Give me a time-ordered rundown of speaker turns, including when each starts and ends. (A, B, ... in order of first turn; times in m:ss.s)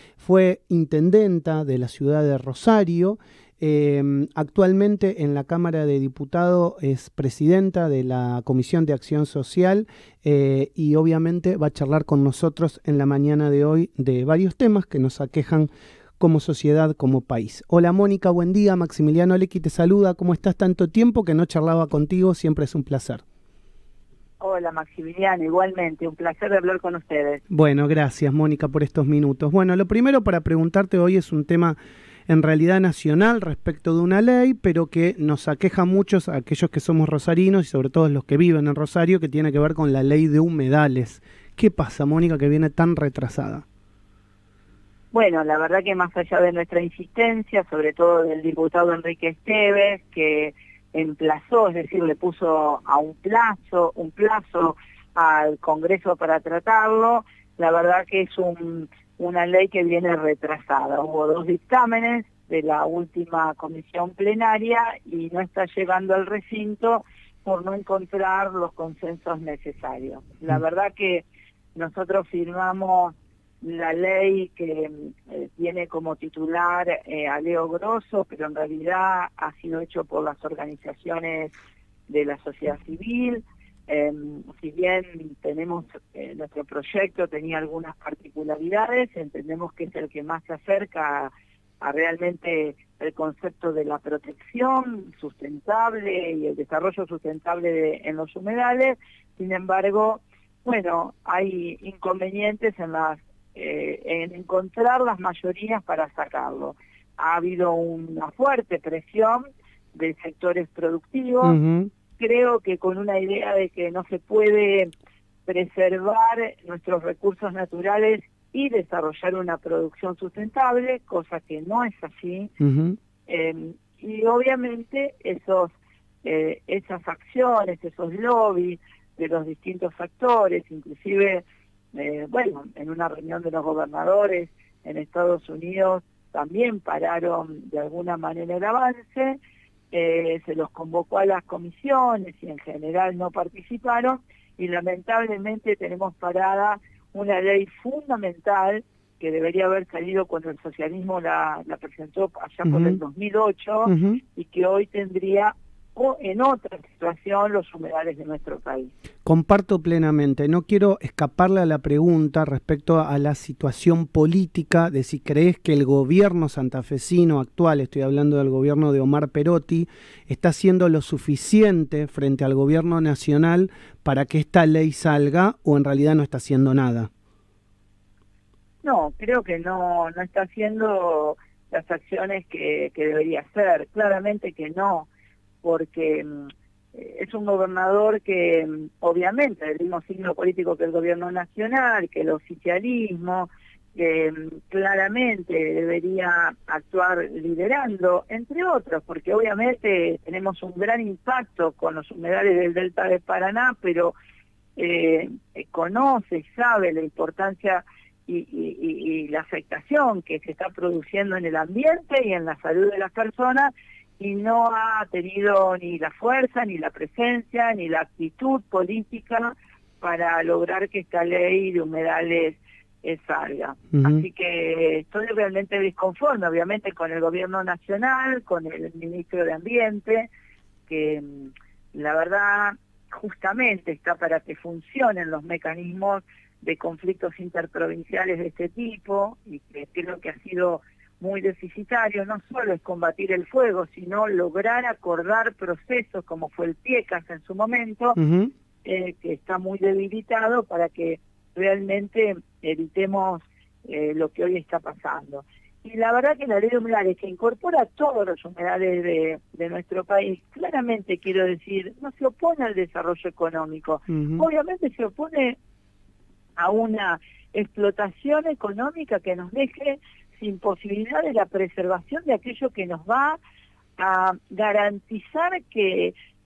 0:00.2-0:23.2 A
0:24.4-0:27.4 B
0:27.5-0:31.8 A
0:32.3-0:43.6 A
0:45.1-1:21.6 B
1:22.1-1:51.6 B
1:51.4-1:51.9 A
1:52.2-1:54.9 B
1:55.4-2:02.5 B
2:02.6-2:03.0 A
2:03.3-2:19.4 B
2:19.9-2:38.9 B
2:32.7-2:33.0 A
2:33.9-2:34.2 A
2:39.2-2:57.1 A
2:58.8-3:05.1 B
3:05.6-3:24.1 B
3:24.8-3:50.3 B
3:43.9-3:44.2 A
3:50.9-4:08.2 B
4:08.2-4:08.5 A
4:08.8-4:25.6 B
4:24.1-4:24.4 A
4:26.6-4:33.4 B
4:34.0-4:36.1 B